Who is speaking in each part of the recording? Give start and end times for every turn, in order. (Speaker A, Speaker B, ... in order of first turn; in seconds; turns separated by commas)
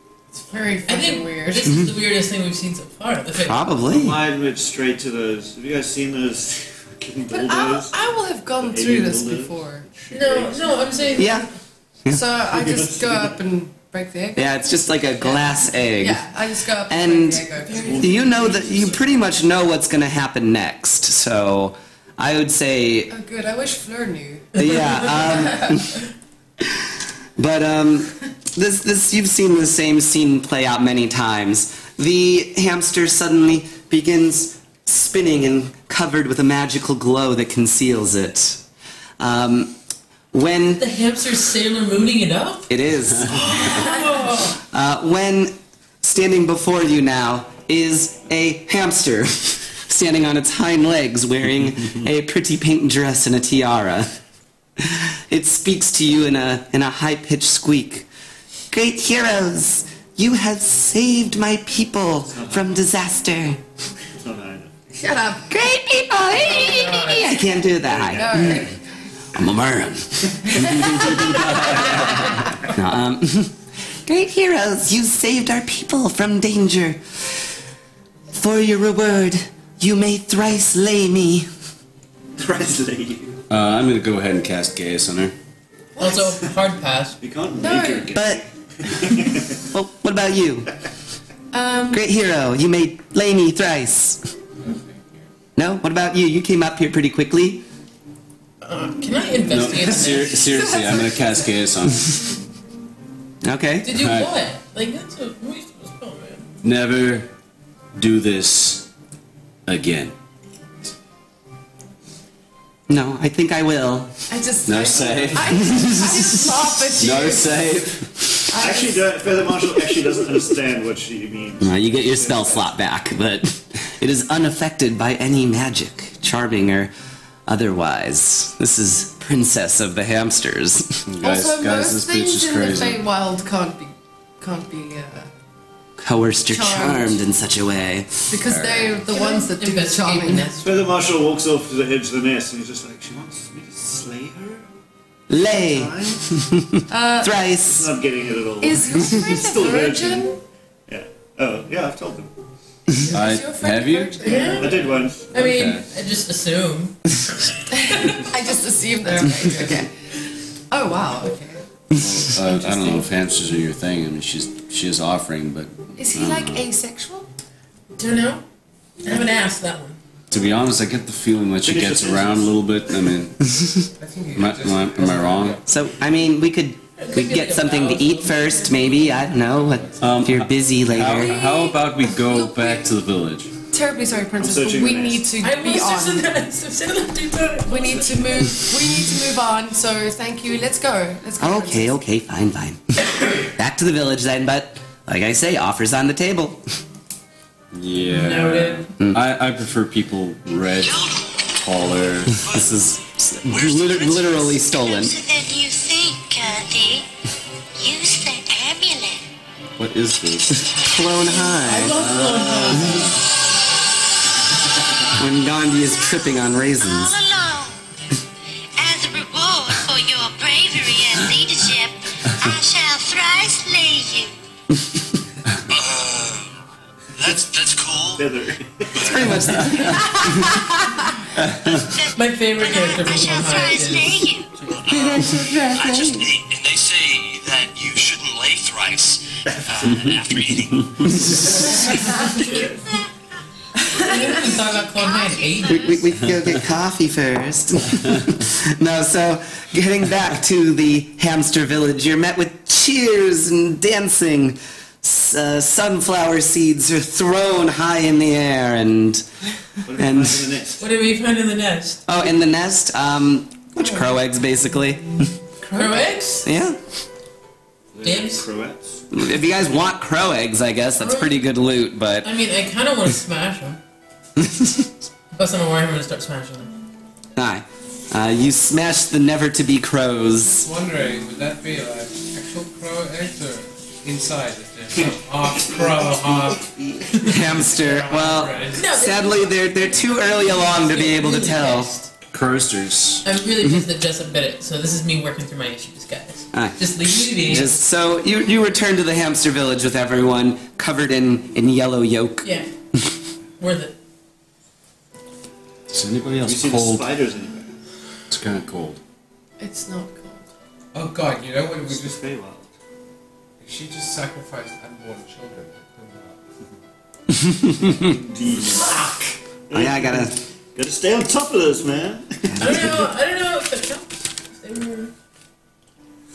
Speaker A: 0.5-1.8, Speaker B: 0.8-3.7, Speaker C: 1.6-1.9, Speaker C: 3.4-4.2, Speaker D: 3.8-7.9, Speaker A: 7.3-9.9, Speaker D: 8.6-11.3, Speaker B: 10.1-11.5, Speaker C: 11.2-11.5, Speaker A: 12.1-18.3, Speaker D: 12.5-13.3, Speaker C: 14.3-16.2, Speaker C: 16.9-17.4, Speaker B: 17.7-17.9, Speaker D: 17.7-19.2, Speaker C: 18.0-23.1, Speaker A: 23.1-25.8, Speaker C: 24.6-26.0, Speaker C: 26.6-38.6, Speaker C: 39.2-39.7, Speaker C: 40.3-40.8, Speaker B: 40.8-42.7, Speaker C: 42.7-43.8, Speaker B: 43.2-44.6, Speaker C: 44.7-54.1, Speaker C: 54.8-58.1, Speaker C: 58.7-63.6, Speaker D: 62.3-62.8, Speaker D: 64.2-64.7, Speaker A: 64.9-65.5, Speaker C: 65.5-68.7, Speaker B: 66.3-67.4, Speaker D: 67.8-68.7, Speaker A: 68.1-68.8, Speaker C: 69.3-71.5, Speaker A: 70.5-72.0, Speaker C: 72.7-77.2, Speaker C: 78.3-81.5, Speaker D: 82.4-83.4, Speaker E: 83.5-85.3, Speaker A: 86.0-86.3, Speaker B: 86.0-87.2, Speaker D: 87.2-89.6, Speaker A: 87.6-88.1, Speaker C: 88.1-88.4, Speaker C: 89.7-90.7, Speaker A: 91.5-92.0, Speaker C: 91.9-94.3, Speaker F: 94.6-95.2, Speaker C: 95.5-97.6, Speaker B: 98.6-100.4, Speaker E: 99.5-102.3, Speaker A: 100.5-101.2, Speaker C: 103.4-103.9, Speaker B: 103.8-106.5, Speaker E: 103.9-104.3, Speaker E: 106.6-107.3, Speaker E: 107.9-108.9, Speaker E: 109.7-110.1, Speaker C: 112.9-114.1, Speaker A: 114.3-117.8, Speaker E: 114.6-116.4, Speaker D: 114.9-115.6, Speaker E: 116.9-118.4, Speaker A: 118.5-119.2, Speaker D: 118.6-122.7, Speaker C: 121.6-126.9, Speaker C: 127.5-131.1, Speaker E: 131.1-133.0, Speaker A: 131.2-135.3, Speaker C: 136.0-138.3, Speaker A: 136.5-137.2, Speaker A: 138.3-140.5, Speaker E: 138.4-139.0, Speaker B: 139.1-140.9, Speaker D: 140.6-144.7, Speaker C: 145.3-147.9, Speaker D: 145.5-146.2, Speaker A: 146.9-147.4, Speaker D: 147.5-150.3, Speaker A: 148.6-150.4, Speaker D: 150.9-152.3, Speaker A: 152.9-154.9, Speaker E: 153.1-154.2, Speaker B: 154.2-158.3, Speaker D: 154.2-155.3, Speaker E: 155.3-155.8, Speaker A: 157.8-159.9, Speaker C: 159.5-159.9, Speaker A: 160.7-161.7, Speaker E: 161.9-166.7, Speaker A: 162.5-163.0, Speaker A: 165.9-167.3, Speaker B: 167.9-168.4, Speaker B: 169.0-170.0, Speaker E: 170.3-173.4, Speaker D: 171.6-172.6, Speaker F: 174.0-175.7, Speaker E: 174.3-175.6, Speaker C: 175.7-181.4, Speaker B: 177.0-179.3, Speaker F: 179.4-180.2, Speaker E: 180.0-183.5, Speaker A: 181.0-182.9, Speaker A: 183.7-186.3, Speaker D: 184.3-185.3, Speaker B: 185.4-188.7, Speaker A: 187.7-192.0, Speaker C: 191.4-192.8, Speaker C: 193.5-196.6, Speaker E: 197.7-201.0, Speaker B: 198.1-198.9, Speaker E: 201.5-202.5, Speaker G: 202.4-202.7, Speaker C: 202.4-205.1, Speaker G: 203.5-204.5, Speaker H: 204.4-207.1, Speaker H: 207.8-209.2, Speaker E: 209.8-210.7, Speaker C: 210.6-212.1, Speaker B: 211.3-213.2, Speaker E: 211.9-213.2, Speaker C: 212.7-213.0, Speaker C: 215.2-217.2, Speaker H: 215.6-217.8, Speaker H: 218.8-224.3, Speaker G: 225.7-226.6, Speaker G: 227.2-228.3, Speaker D: 228.2-229.6, Speaker G: 228.9-229.8, Speaker C: 229.0-230.5, Speaker E: 229.6-229.9, Speaker E: 231.4-231.7, Speaker H: 231.7-234.5, Speaker B: 232.2-234.8, Speaker G: 234.8-241.4, Speaker A: 234.9-236.3, Speaker H: 241.4-243.1, Speaker H: 243.9-246.0, Speaker B: 244.0-246.0, Speaker C: 245.7-259.2, Speaker D: 259.8-260.9, Speaker C: 259.9-260.4, Speaker B: 260.8-262.0, Speaker C: 262.1-265.3, Speaker A: 265.6-266.0, Speaker B: 265.7-266.5, Speaker C: 266.4-266.8, Speaker D: 267.9-269.0, Speaker B: 268.0-268.5, Speaker C: 269.1-272.3, Speaker B: 271.0-271.4, Speaker B: 272.2-273.8, Speaker C: 274.4-274.9, Speaker B: 275.3-276.8, Speaker C: 277.4-280.7, Speaker F: 280.4-286.6, Speaker D: 285.0-287.1, Speaker B: 287.1-292.1, Speaker C: 287.2-291.9, Speaker F: 287.3-288.8, Speaker E: 292.3-293.2, Speaker B: 293.2-297.7, Speaker C: 296.5-303.1, Speaker B: 302.4-302.7, Speaker B: 303.6-303.9, Speaker E: 305.9-307.1, Speaker D: 306.4-307.8, Speaker E: 308.3-309.0, Speaker A: 309.6-310.4, Speaker F: 310.9-312.2, Speaker D: 311.8-312.7, Speaker F: 313.6-316.4, Speaker C: 317.4-318.0, Speaker D: 317.9-323.0, Speaker C: 319.7-320.4, Speaker C: 322.4-323.0, Speaker B: 322.6-325.1